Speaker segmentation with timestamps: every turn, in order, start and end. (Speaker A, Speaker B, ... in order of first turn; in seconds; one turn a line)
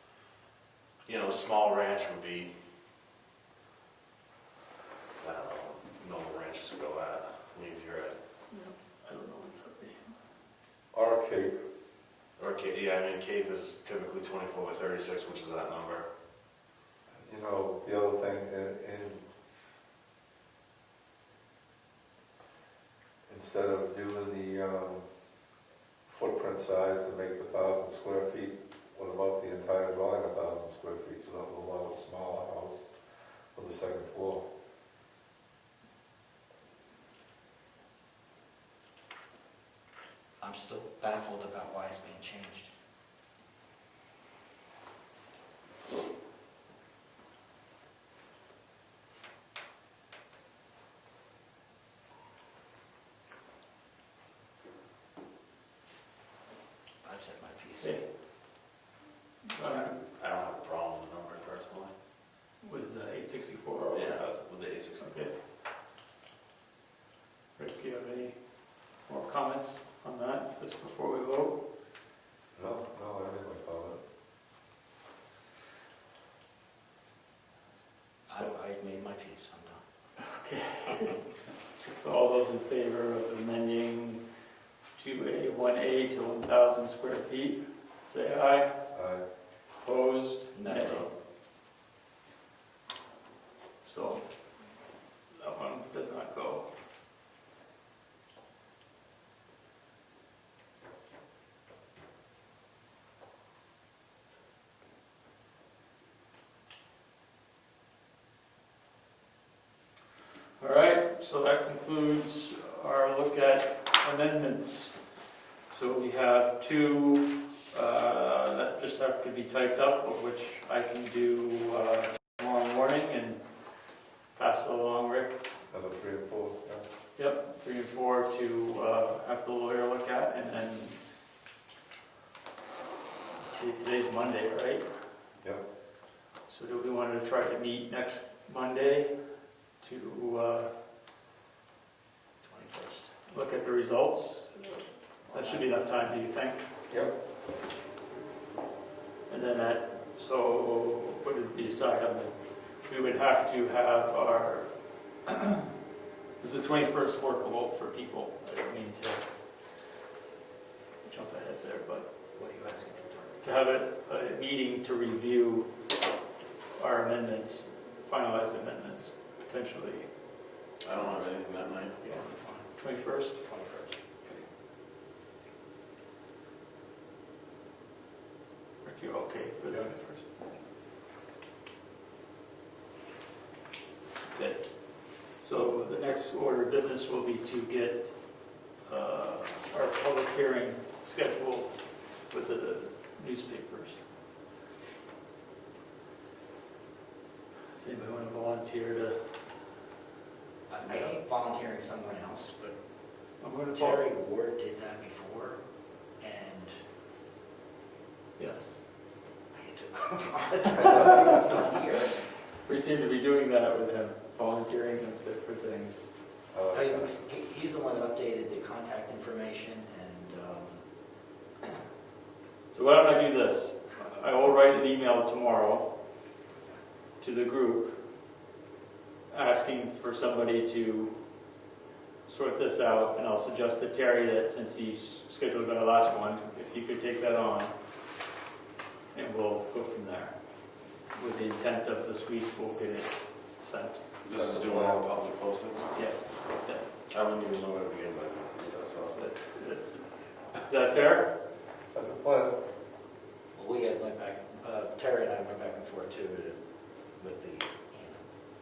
Speaker A: 1.1-2.5
Speaker A: 5.2-8.2
Speaker B: 8.5-10.1
Speaker C: 10.9-11.6
Speaker A: 12.4-16.1
Speaker C: 17.1-19.2
Speaker C: 23.3-25.0
Speaker C: 26.1-32.9
Speaker C: 33.5-34.5
Speaker D: 40.4-42.7
Speaker D: 57.0-58.0
Speaker B: 57.8-58.0
Speaker B: 59.5-60.0
Speaker D: 59.6-59.9
Speaker A: 60.1-61.9
Speaker B: 62.6-64.2
Speaker A: 63.9-65.2
Speaker B: 65.0-65.3
Speaker B: 67.6-68.4
Speaker B: 69.1-71.6
Speaker C: 72.5-74.0
Speaker D: 78.3-79.8
Speaker B: 80.2-81.2
Speaker B: 81.8-84.2
Speaker B: 85.0-88.8
Speaker C: 88.9-89.2
Speaker B: 89.8-91.1
Speaker D: 90.5-91.1
Speaker B: 93.8-94.2
Speaker B: 95.3-96.7
Speaker B: 110.6-114.9
Speaker B: 115.7-123.4
Speaker B: 124.4-125.4
Speaker C: 125.7-126.8
Speaker B: 127.2-131.0
Speaker B: 133.3-134.8
Speaker B: 136.5-139.2
Speaker B: 139.8-140.7
Speaker D: 142.4-143.1
Speaker B: 143.3-146.6
Speaker D: 145.3-146.0
Speaker B: 149.3-152.3
Speaker B: 152.9-154.7
Speaker B: 155.3-155.7
Speaker B: 156.4-159.2
Speaker B: 161.0-162.1
Speaker D: 162.3-163.4
Speaker B: 163.4-165.7
Speaker B: 166.8-170.1
Speaker A: 170.8-172.0
Speaker D: 172.0-172.8
Speaker B: 172.8-173.4
Speaker D: 173.3-174.0
Speaker B: 178.8-180.3
Speaker B: 184.3-184.7
Speaker B: 185.4-188.1
Speaker B: 188.9-191.7
Speaker B: 192.3-194.0
Speaker B: 197.8-199.2
Speaker B: 200.7-201.2
Speaker D: 200.7-202.8
Speaker B: 203.4-204.1
Speaker D: 203.7-205.6
Speaker D: 206.2-206.8
Speaker B: 208.4-208.8
Speaker D: 209.5-212.2
Speaker B: 212.6-216.1
Speaker C: 216.5-217.2
Speaker D: 216.7-220.8
Speaker B: 222.7-225.9
Speaker B: 227.2-227.9
Speaker B: 229.3-231.2
Speaker B: 232.3-237.7
Speaker B: 239.1-240.3
Speaker B: 241.1-244.0
Speaker A: 244.2-245.9
Speaker C: 244.3-245.1
Speaker B: 245.9-246.9
Speaker A: 247.1-249.2
Speaker B: 249.2-251.3
Speaker C: 251.9-252.6
Speaker D: 253.6-256.6
Speaker D: 257.2-258.2